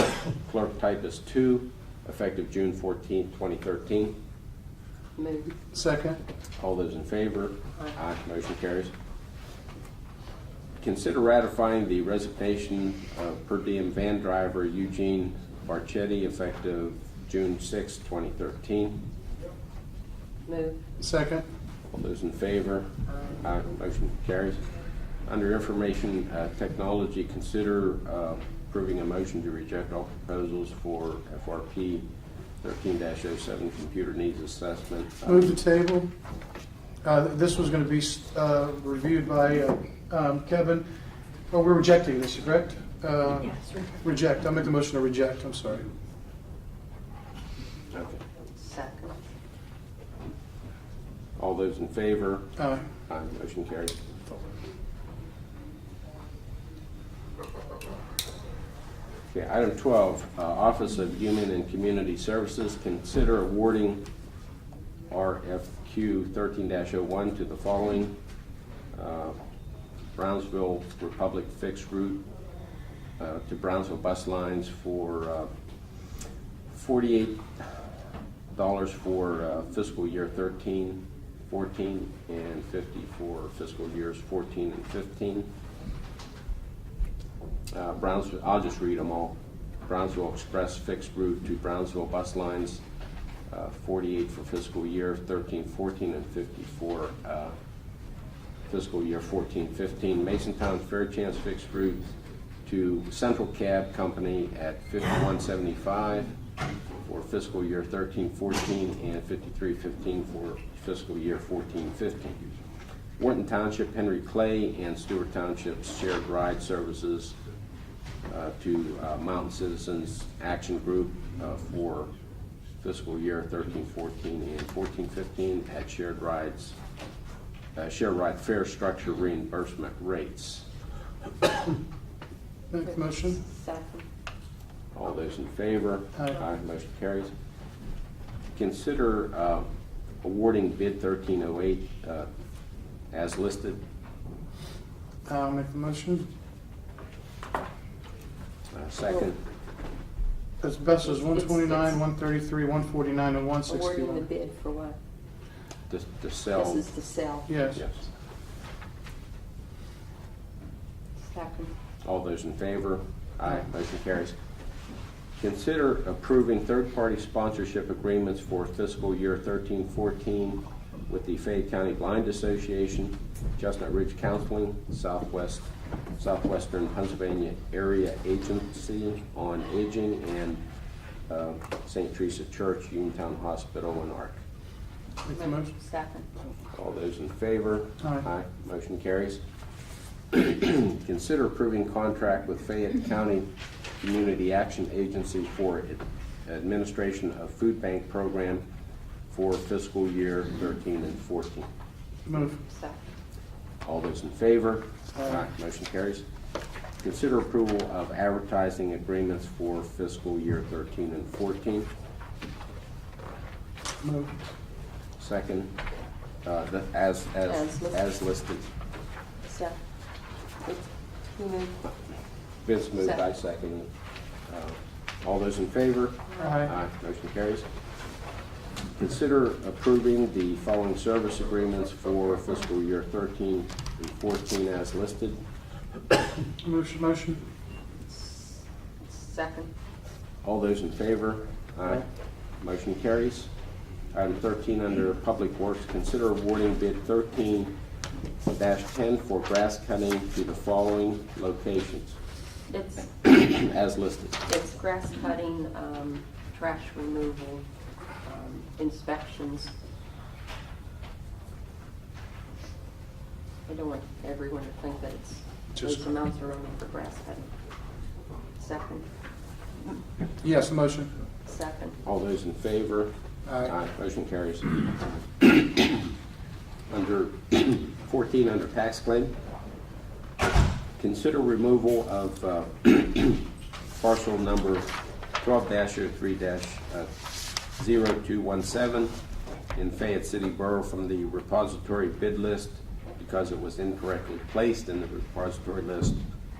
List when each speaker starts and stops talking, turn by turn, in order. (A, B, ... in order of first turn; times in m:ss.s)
0:00.3-0:04.2 A
0:05.2-0:05.6 B
0:05.7-0:06.2 C
0:06.6-0:08.9 A
0:10.8-0:19.0 A
0:20.4-0:20.8 B
0:21.0-0:21.5 C
0:21.9-0:24.6 A
0:23.1-0:23.4 B
0:25.2-0:32.1 A
0:32.6-0:35.5 A
0:35.2-0:36.1 C
0:37.0-0:40.9 C
0:41.5-0:45.9 C
0:47.9-0:48.2 A
0:48.6-0:49.1 B
0:51.4-0:54.0 A
0:52.6-0:52.9 C
0:59.3-1:04.0 A
1:05.1-1:08.2 A
1:08.9-1:09.4 A
1:10.2-1:12.2 A
1:13.2-1:15.5 A
1:16.7-1:17.8 A
1:18.5-1:25.5 A
1:27.7-1:32.8 A
1:33.5-1:37.6 A
1:38.7-1:42.1 A
1:42.6-1:46.4 A
1:47.0-1:52.4 A
1:53.2-1:57.4 A
1:58.3-2:02.1 A
2:02.8-2:06.8 A
2:07.8-2:10.7 A
2:12.7-2:13.4 C
2:12.8-2:14.1 B
2:14.9-2:17.3 A
2:18.6-2:19.7 A
2:20.2-2:22.3 A
2:23.1-2:23.8 A
2:25.3-2:26.3 C
2:28.7-2:29.4 A
2:30.6-2:34.3 C
2:31.0-2:32.0 B
2:33.7-2:35.0 B
2:35.9-2:36.8 A
2:36.5-2:37.6 B
2:37.5-2:37.8 C
2:37.8-2:38.0 A
2:41.2-2:41.7 B
2:42.0-2:44.4 A
2:45.4-3:00.6 A
3:01.3-3:04.4 A
3:05.3-3:05.7 C
3:05.3-3:06.3 B
3:06.7-3:09.4 A
3:10.3-3:13.5 A
3:14.0-3:18.6 A
3:19.3-3:21.7 A
3:22.3-3:22.6 C
3:22.3-3:23.1 B
3:23.8-3:26.2 A
3:27.0-3:31.9 A
3:34.0-3:34.3 C
3:35.2-3:35.7 A
3:36.4-3:38.7 A
3:37.5-3:38.0 B
3:39.4-3:39.8 B
3:40.6-3:41.8 B
3:42.6-3:43.9 A
3:44.5-3:47.7 A
3:46.4-3:46.7 C
3:49.0-3:55.4 A
3:56.6-3:57.4 C
3:58.1-3:59.7 B
4:00.4-4:02.1 A
4:02.6-4:03.5 A
4:04.1-4:07.8 A
4:08.5-4:12.2 A
4:12.7-4:13.1 B
4:13.2-4:14.4 A
4:14.5-4:17.7 B
4:18.2-4:19.7 B
4:23.7-4:27.5 B
4:28.6-4:29.1 B
4:30.4-4:31.1 C
4:31.5-4:32.0 B
4:32.0-4:33.1 A
4:33.5-4:33.7 C
4:33.6-4:34.8 A
4:35.4-4:35.9 A
4:36.9-4:39.3 A
4:41.0-4:47.1 A
4:47.7-4:49.1 A
4:49.8-4:56.2 A